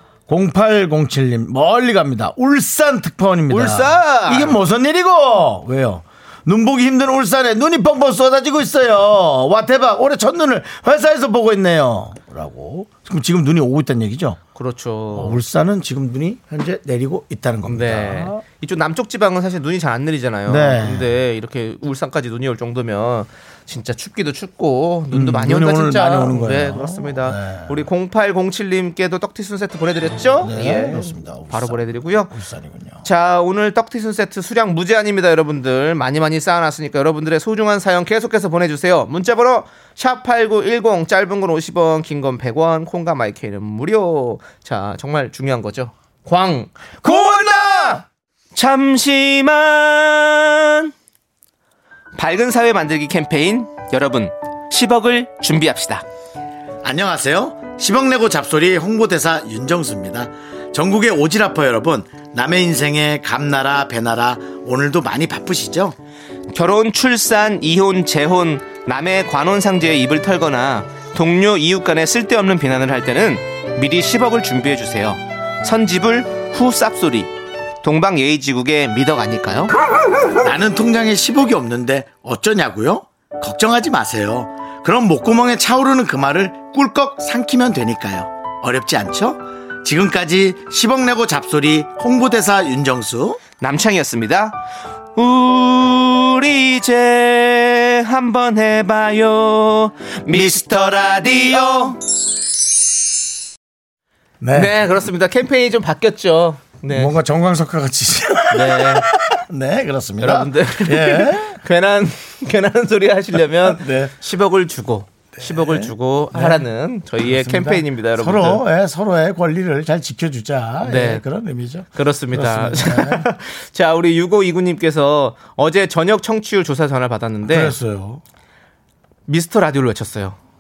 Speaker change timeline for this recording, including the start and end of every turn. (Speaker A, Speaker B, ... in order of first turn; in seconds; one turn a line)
Speaker A: 0.3-14.4
Speaker B: 3.5-4.6
Speaker B: 14.5-15.4
Speaker A: 15.1-18.4
Speaker B: 17.7-32.3
Speaker A: 20.5-21.1
Speaker A: 25.1-27.8
Speaker A: 30.4-33.0
Speaker B: 33.0-48.0
Speaker A: 47.0-48.0
Speaker B: 48.5-50.9
Speaker B: 52.1-56.0
Speaker A: 56.8-66.0
Speaker B: 66.5-77.3
Speaker B: 77.8-79.7
Speaker A: 80.4-93.4
Speaker B: 93.6-94.6
Speaker B: 95.2-102.0
Speaker A: 104.4-104.8
Speaker B: 104.5-107.1
Speaker A: 106.9-111.6
Speaker B: 108.5-109.1
Speaker B: 110.2-118.6
Speaker A: 113.6-114.1
Speaker A: 115.3-123.3
Speaker B: 120.8-121.2
Speaker B: 121.9-127.7
Speaker A: 127.4-128.2
Speaker B: 129.3-130.4